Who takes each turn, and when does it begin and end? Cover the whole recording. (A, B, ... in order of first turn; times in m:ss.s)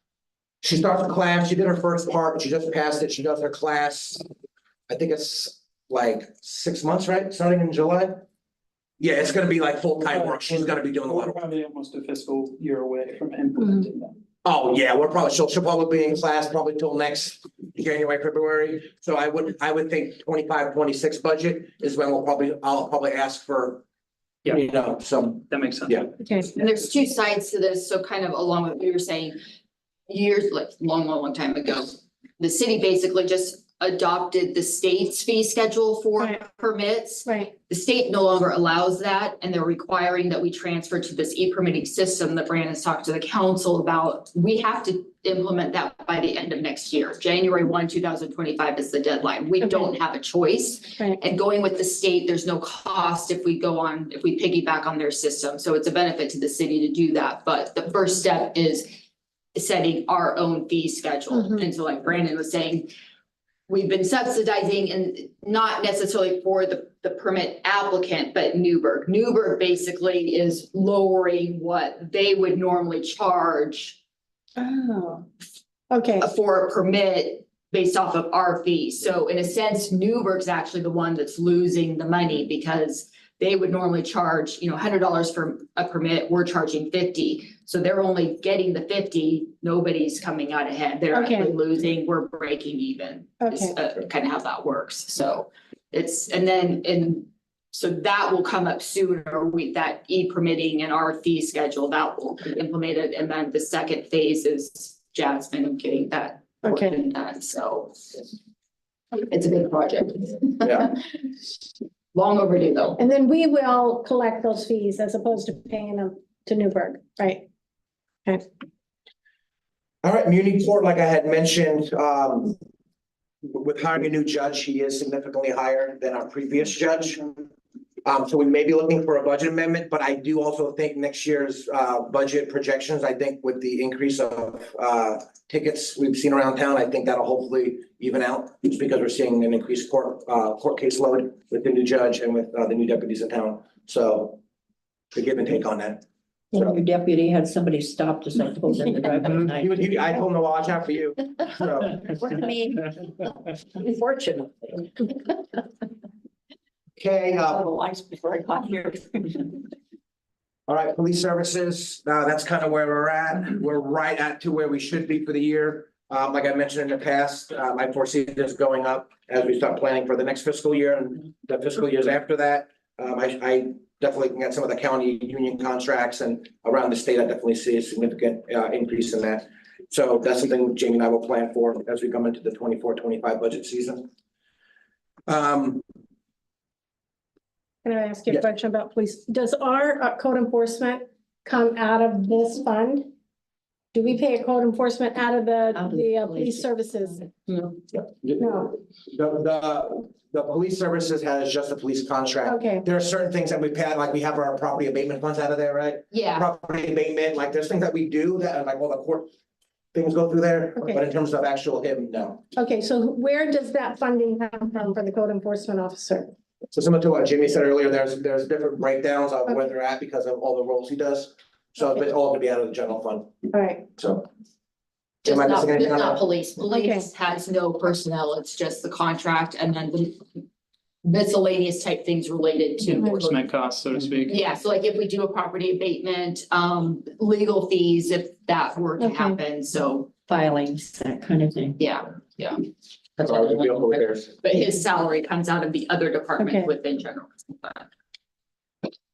0:00.6-0:04.2 A
0:04.9-0:08.2 A
0:09.0-0:11.4 A
0:10.1-0:14.2 B
0:14.4-0:23.8 A
0:24.5-0:26.1 A
0:25.5-0:26.1 B
0:26.2-0:26.5 C
0:26.6-0:29.4 D
0:30.1-0:58.9 D
0:37.2-0:37.5 C
0:59.6-1:02.9 D
1:03.7-1:14.0 D
1:14.6-1:15.2 C
1:15.9-1:16.3 C
1:16.2-1:48.2 D
1:31.1-1:31.5 C
1:33.4-1:33.7 C
1:46.6-1:47.0 C
1:49.2-1:51.0 D
1:50.6-1:50.9 A
1:52.1-1:53.0 D
1:53.0-1:57.5 C
2:00.0-2:02.6 A
2:03.5-2:07.5 A
2:08.0-2:24.4 A
2:25.1-2:26.0 A
2:26.5-2:29.8 E
2:29.2-2:32.0 A
2:32.2-2:33.2 E
2:33.8-2:35.1 E
2:37.0-2:37.7 A
2:37.5-2:39.6 E
2:40.7-3:04.1 A
3:05.3-3:05.8 A
3:07.8-3:13.1 C
3:13.9-3:17.2 C
3:15.8-3:17.2 E
3:17.5-3:17.7 D
3:17.9-3:29.3 A
3:18.4-3:18.7 C
3:22.4-3:22.8 C
3:26.1-3:26.5 D
3:29.9-3:32.4 A
3:32.6-3:36.3 C
3:36.7-3:43.3 A
3:43.5-3:43.9 C
3:44.0-3:44.3 A
3:45.2-3:50.2 D
3:45.3-3:46.2 A
3:46.7-3:47.1 C
3:51.0-3:53.4 D
3:53.1-3:54.4 B
3:54.3-4:00.1 D
3:59.0-3:59.4 C
4:00.3-4:01.8 E
4:01.8-4:02.6 D
4:03.2-4:04.4 A
4:03.2-4:07.9 D
4:06.4-4:06.7 C